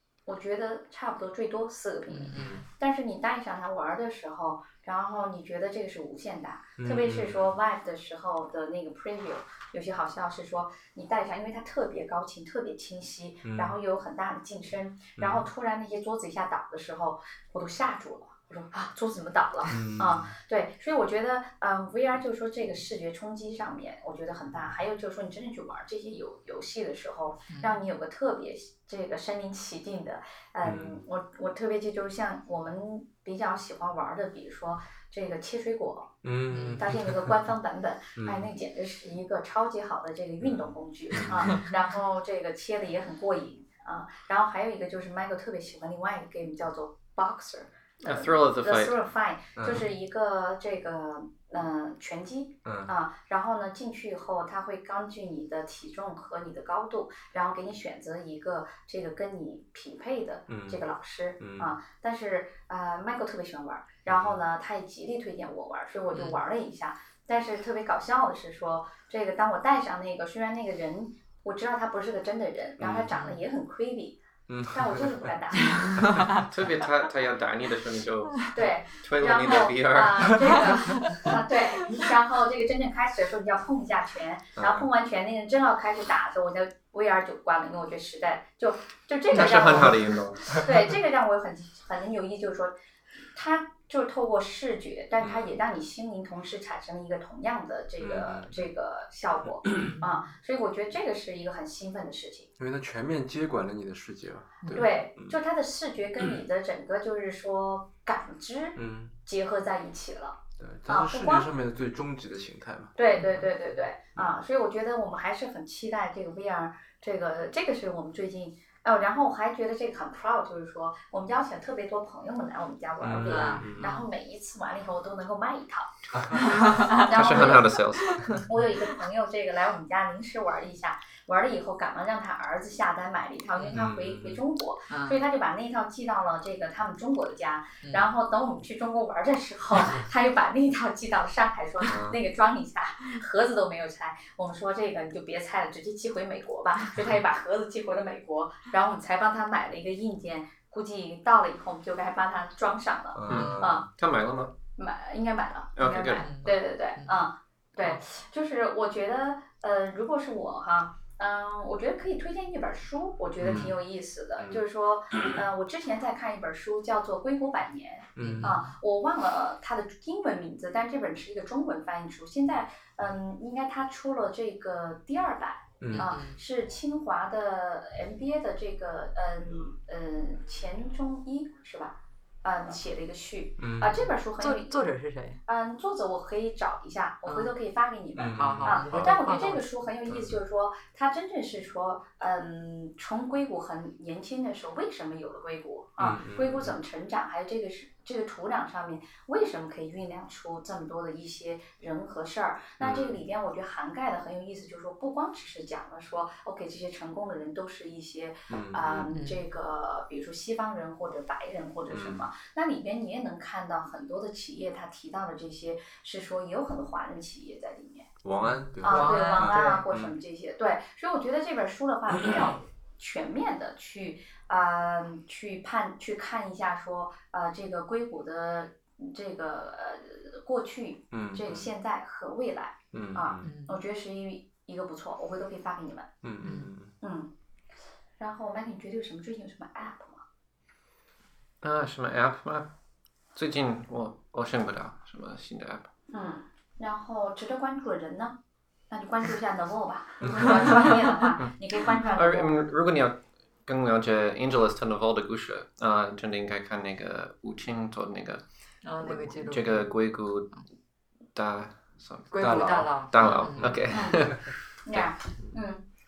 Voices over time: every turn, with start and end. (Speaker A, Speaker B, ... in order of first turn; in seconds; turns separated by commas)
Speaker A: 0.2-36.1, Speaker B: 2.1-2.6, Speaker C: 2.3-2.6, Speaker C: 6.8-7.5, Speaker C: 13.4-13.8, Speaker C: 15.2-15.4, Speaker C: 19.7-20.3, Speaker B: 27.5-27.8, Speaker C: 30.6-31.0, Speaker C: 36.2-37.3, Speaker B: 36.5-36.9, Speaker A: 36.8-76.2, Speaker C: 38.1-38.5, Speaker C: 40.4-41.6, Speaker D: 48.0-48.9, Speaker C: 49.5-49.9, Speaker C: 52.6-52.9, Speaker C: 60.5-60.8, Speaker C: 61.4-61.7, Speaker C: 64.1-64.4, Speaker B: 66.1-66.4, Speaker C: 72.8-73.1, Speaker B: 73.1-73.4, Speaker C: 74.5-75.3, Speaker B: 76.0-76.4, Speaker D: 76.4-80.6, Speaker A: 78.5-92.7, Speaker C: 84.6-84.9, Speaker D: 89.3-90.4, Speaker A: 93.3-102.5, Speaker C: 95.2-95.5, Speaker C: 98.0-98.6, Speaker C: 102.6-105.4, Speaker B: 104.6-104.9, Speaker A: 104.7-111.5, Speaker C: 108.8-109.1, Speaker C: 110.6-113.0, Speaker A: 113.0-153.9, Speaker B: 113.2-113.4, Speaker C: 123.0-123.9, Speaker B: 123.2-124.1, Speaker C: 126.1-126.5, Speaker B: 126.5-128.5, Speaker D: 126.6-128.4, Speaker B: 133.6-133.8, Speaker C: 133.7-134.4, Speaker B: 134.9-135.2, Speaker C: 141.9-142.2, Speaker C: 153.1-153.8, Speaker D: 153.3-154.5, Speaker B: 153.3-153.7, Speaker A: 154.8-218.1, Speaker D: 155.8-156.3, Speaker B: 156.2-157.1, Speaker C: 163.4-163.7, Speaker B: 163.4-163.7, Speaker C: 168.2-168.5, Speaker B: 168.2-168.7, Speaker C: 175.8-176.1, Speaker B: 175.9-176.4, Speaker C: 183.6-184.1, Speaker B: 184.4-185.4, Speaker B: 187.2-187.5, Speaker C: 188.2-189.2, Speaker B: 188.3-189.7, Speaker C: 190.1-190.4, Speaker C: 196.0-196.7, Speaker C: 202.8-203.2, Speaker C: 208.5-209.2, Speaker B: 209.1-209.4, Speaker C: 211.9-212.2, Speaker C: 218.2-220.1, Speaker B: 218.4-219.8, Speaker A: 218.8-236.1, Speaker C: 222.1-222.5, Speaker C: 231.1-231.7, Speaker C: 232.9-233.4, Speaker B: 233.4-233.8, Speaker C: 236.2-236.9, Speaker B: 236.4-236.7, Speaker A: 237.0-237.3, Speaker A: 238.2-240.2, Speaker D: 241.6-242.7, Speaker D: 243.3-245.9, Speaker A: 246.1-248.4, Speaker A: 248.9-252.6, Speaker C: 250.2-250.7, Speaker D: 251.9-258.4, Speaker B: 258.8-259.9, Speaker D: 259.0-260.5, Speaker D: 261.3-265.1, Speaker B: 262.3-263.8, Speaker C: 262.3-263.9, Speaker A: 263.9-264.3, Speaker A: 264.8-265.8